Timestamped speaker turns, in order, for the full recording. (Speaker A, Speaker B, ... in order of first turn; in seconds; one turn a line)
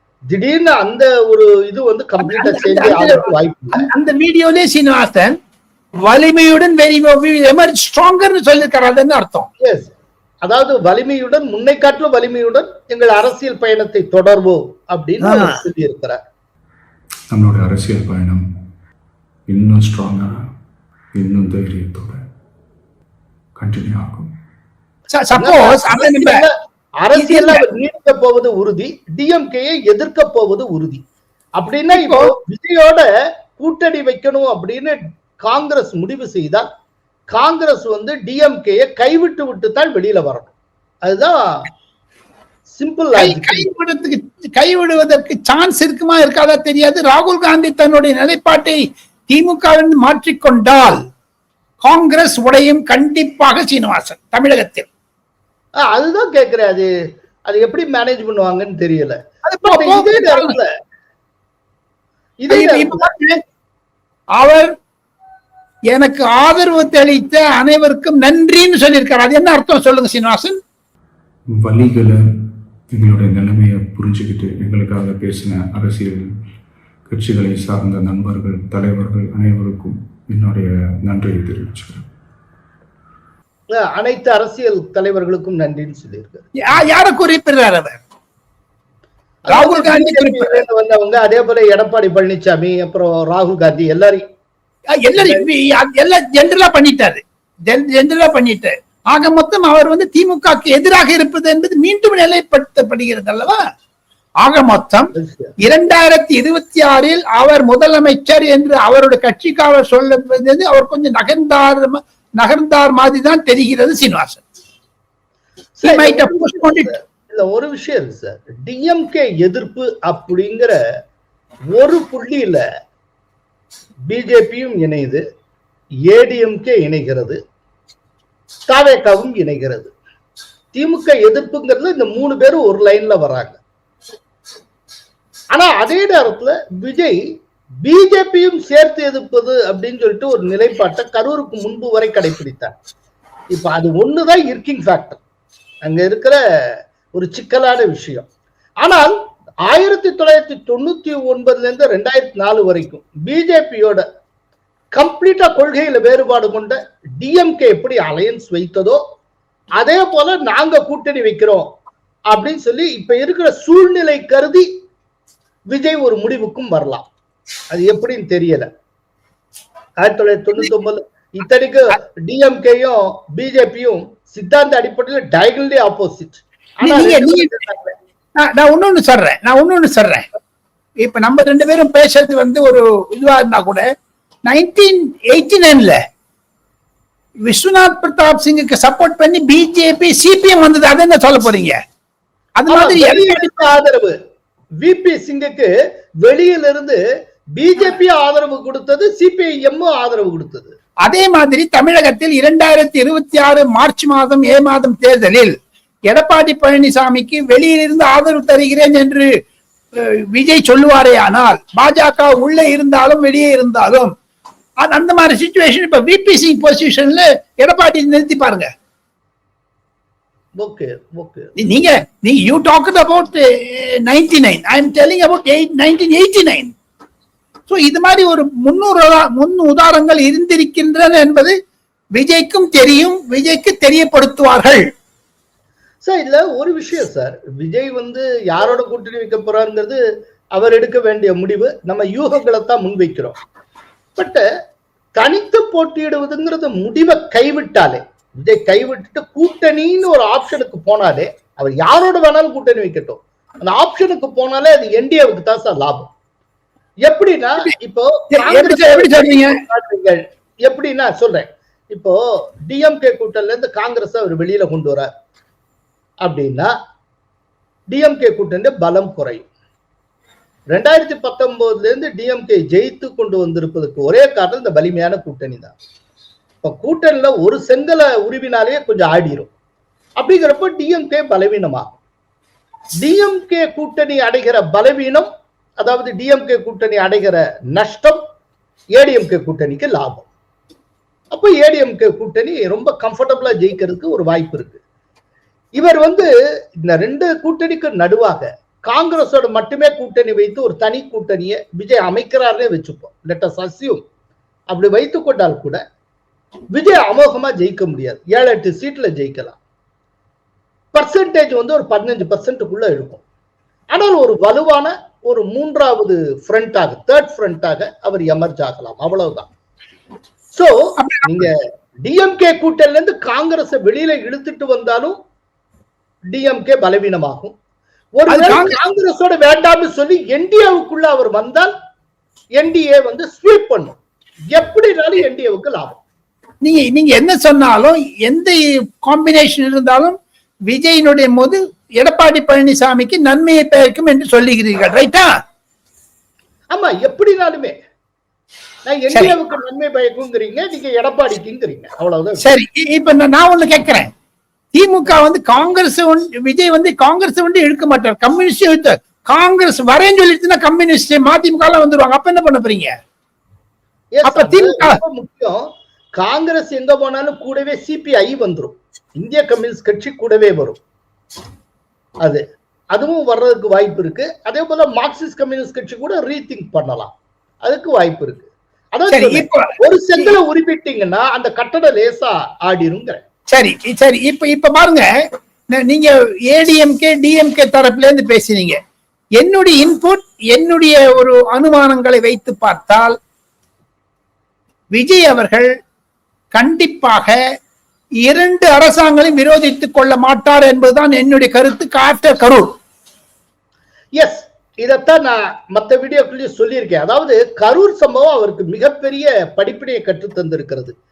Speaker A: 0.3-3.8
Speaker B: 2.2-5.3
Speaker B: 6.0-9.5
Speaker A: 9.6-9.9
Speaker A: 10.4-16.2
Speaker B: 15.2-15.6
Speaker C: 17.3-18.4
Speaker C: 19.5-20.3
Speaker C: 21.1-22.2
Speaker C: 23.6-24.3
Speaker B: 25.1-26.4
Speaker A: 25.4-31.0
Speaker B: 27.1-27.6
Speaker A: 31.6-36.7
Speaker B: 31.9-32.3
Speaker A: 37.3-40.5
Speaker A: 41.0-41.7
Speaker A: 42.7-43.7
Speaker B: 43.2-51.0
Speaker B: 51.8-54.9
Speaker A: 55.8-56.9
Speaker A: 57.5-60.7
Speaker B: 59.4-60.6
Speaker A: 62.4-63.1
Speaker B: 62.5-63.4
Speaker B: 64.4-64.7
Speaker B: 65.9-70.6
Speaker C: 71.6-72.2
Speaker C: 72.9-76.3
Speaker C: 77.1-82.0
Speaker A: 83.7-86.5
Speaker B: 86.6-88.0
Speaker A: 89.4-94.2
Speaker B: 89.5-90.6
Speaker B: 95.0-103.6
Speaker A: 95.2-95.5
Speaker B: 104.4-114.4
Speaker A: 105.2-105.5
Speaker A: 115.8-120.8
Speaker B: 115.8-116.9
Speaker A: 121.7-122.6
Speaker A: 124.1-125.2
Speaker A: 126.1-127.4
Speaker A: 128.7-129.9
Speaker A: 130.7-133.6
Speaker A: 135.5-137.2
Speaker A: 137.8-142.8
Speaker A: 143.5-145.2
Speaker A: 145.8-148.3
Speaker A: 148.8-154.0
Speaker A: 154.9-159.0
Speaker A: 159.8-161.7
Speaker A: 162.3-164.7
Speaker A: 165.7-167.1
Speaker A: 167.7-168.7
Speaker A: 170.0-177.9
Speaker B: 176.8-177.6
Speaker B: 178.4-180.3
Speaker B: 181.0-183.8
Speaker B: 184.5-186.0
Speaker B: 187.4-191.8
Speaker B: 192.6-193.5
Speaker A: 192.7-194.1
Speaker A: 194.8-197.0
Speaker A: 197.6-200.7
Speaker B: 201.0-205.5
Speaker B: 206.1-209.3
Speaker B: 210.0-214.1
Speaker B: 214.8-218.7
Speaker A: 220.6-221.5
Speaker B: 221.6-226.7
Speaker B: 227.7-231.6
Speaker B: 232.2-234.9
Speaker A: 236.0-240.0
Speaker A: 240.5-243.4
Speaker A: 244.2-244.4
Speaker A: 245.2-256.1
Speaker A: 257.0-265.1
Speaker B: 258.3-259.6
Speaker A: 266.2-266.7
Speaker A: 267.9-269.4
Speaker A: 270.7-275.7
Speaker A: 276.6-279.5
Speaker A: 280.2-281.9
Speaker A: 283.0-288.2
Speaker A: 288.9-290.3
Speaker A: 291.3-294.8
Speaker A: 295.8-296.3
Speaker A: 296.8-304.0
Speaker A: 304.7-305.8
Speaker A: 306.7-309.6
Speaker A: 310.9-313.2
Speaker A: 313.9-319.5
Speaker A: 320.5-325.2
Speaker B: 321.0-321.5
Speaker A: 326.3-327.5
Speaker A: 328.2-331.7
Speaker B: 328.3-328.8
Speaker A: 332.6-333.9
Speaker A: 334.5-336.0
Speaker B: 336.6-340.2
Speaker B: 340.7-345.3
Speaker A: 346.7-347.8
Speaker A: 348.9-352.4
Speaker B: 352.4-354.1
Speaker B: 354.7-362.9
Speaker A: 364.1-370.8
Speaker B: 364.2-365.0
Speaker A: 372.2-383.2
Speaker B: 379.1-380.3
Speaker B: 383.5-385.0
Speaker B: 385.7-388.8
Speaker B: 389.4-393.2
Speaker B: 394.9-395.7
Speaker B: 396.5-397.4
Speaker B: 398.2-402.7
Speaker A: 404.2-410.9